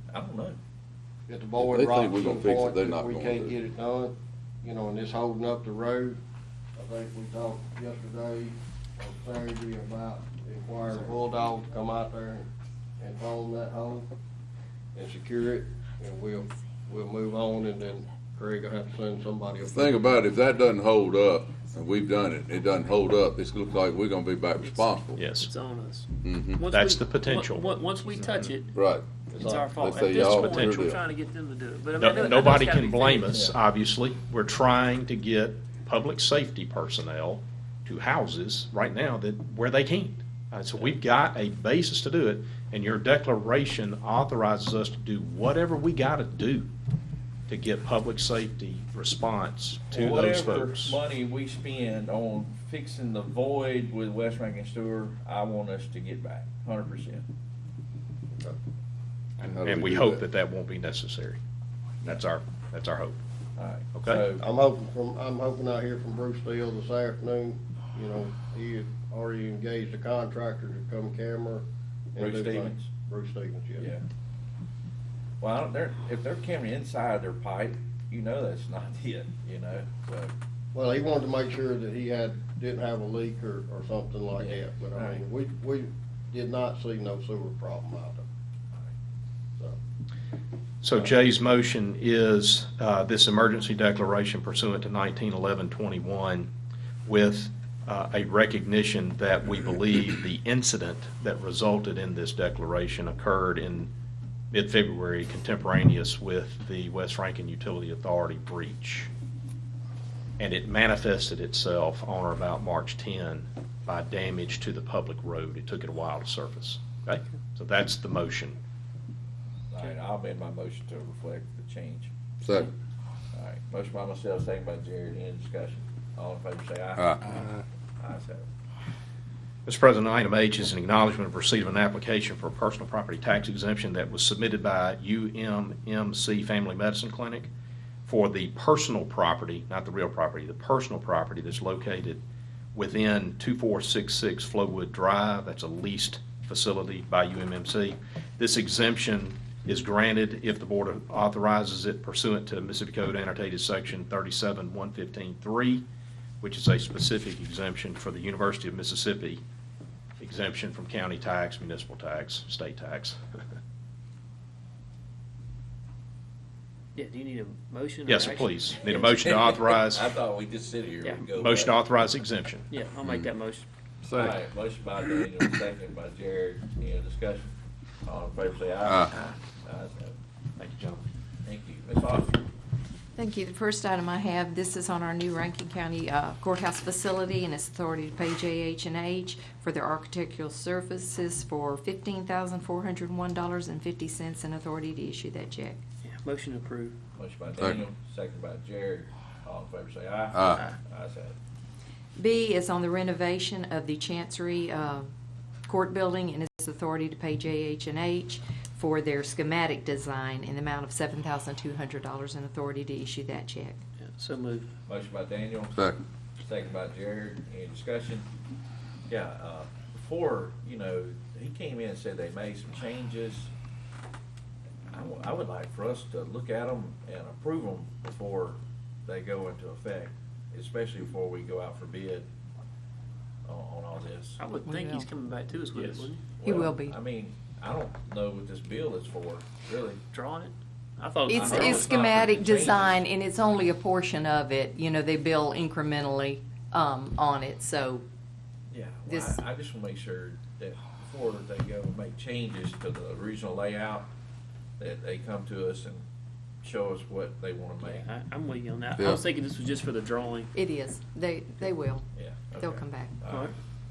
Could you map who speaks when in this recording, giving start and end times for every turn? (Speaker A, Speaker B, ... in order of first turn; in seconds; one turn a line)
Speaker A: 0.1-0.6
Speaker B: 1.3-6.2
Speaker C: 1.6-3.5
Speaker B: 6.7-14.1
Speaker B: 14.9-19.9
Speaker C: 19.6-25.2
Speaker D: 24.6-28.7
Speaker E: 25.1-25.5
Speaker C: 26.2-26.7
Speaker E: 26.7-28.5
Speaker C: 28.7-31.0
Speaker B: 29.3-29.6
Speaker D: 29.3-33.4
Speaker E: 30.2-30.9
Speaker E: 32.0-46.7
Speaker A: 33.3-33.5
Speaker E: 47.5-50.9
Speaker A: 49.9-57.2
Speaker C: 59.4-60.2
Speaker E: 59.6-61.4
Speaker E: 62.0-63.1
Speaker A: 63.6-64.4
Speaker B: 64.3-73.9
Speaker A: 72.2-72.9
Speaker A: 73.8-74.0
Speaker A: 75.4-80.3
Speaker B: 80.7-88.2
Speaker A: 84.4-85.2
Speaker E: 90.8-96.5
Speaker E: 97.0-103.9
Speaker E: 104.5-109.1
Speaker E: 110.4-118.5
Speaker A: 119.7-122.1
Speaker C: 122.4-122.7
Speaker A: 123.3-127.4
Speaker C: 127.0-127.4
Speaker A: 128.0-128.5
Speaker E: 129.7-137.5
Speaker E: 138.1-142.2
Speaker E: 142.7-155.8
Speaker E: 156.4-159.4
Speaker E: 160.2-163.2
Speaker D: 166.9-169.3
Speaker E: 168.1-170.1
Speaker A: 169.2-171.8
Speaker E: 171.4-172.6
Speaker D: 172.7-173.7
Speaker C: 173.0-173.3
Speaker C: 174.0-174.3
Speaker A: 174.1-180.1
Speaker C: 178.8-179.1
Speaker D: 180.6-181.0
Speaker A: 181.4-182.4
Speaker F: 183.2-195.8
Speaker D: 196.0-197.0
Speaker A: 197.1-201.3
Speaker C: 197.6-197.8
Speaker C: 200.3-200.6
Speaker F: 202.2-205.1
Speaker F: 205.7-213.8
Speaker D: 214.0-214.7
Speaker A: 214.9-215.7
Speaker C: 215.7-216.0
Speaker A: 216.4-218.3
Speaker A: 219.1-223.5
Speaker A: 224.9-232.3
Speaker A: 233.4-234.4
Speaker D: 234.4-236.2
Speaker F: 234.7-235.1
Speaker A: 235.7-240.0
Speaker F: 236.4-237.0
Speaker D: 240.1-242.1
Speaker F: 241.3-248.0
Speaker A: 241.3-243.0
Speaker A: 248.7-254.1
Speaker F: 249.1-249.4
Speaker A: 254.8-256.0
Speaker A: 256.6-258.1
Speaker D: 257.8-260.5
Speaker C: 258.9-259.2
Speaker F: 260.5-262.1
Speaker A: 262.1-263.5
Speaker F: 262.6-263.1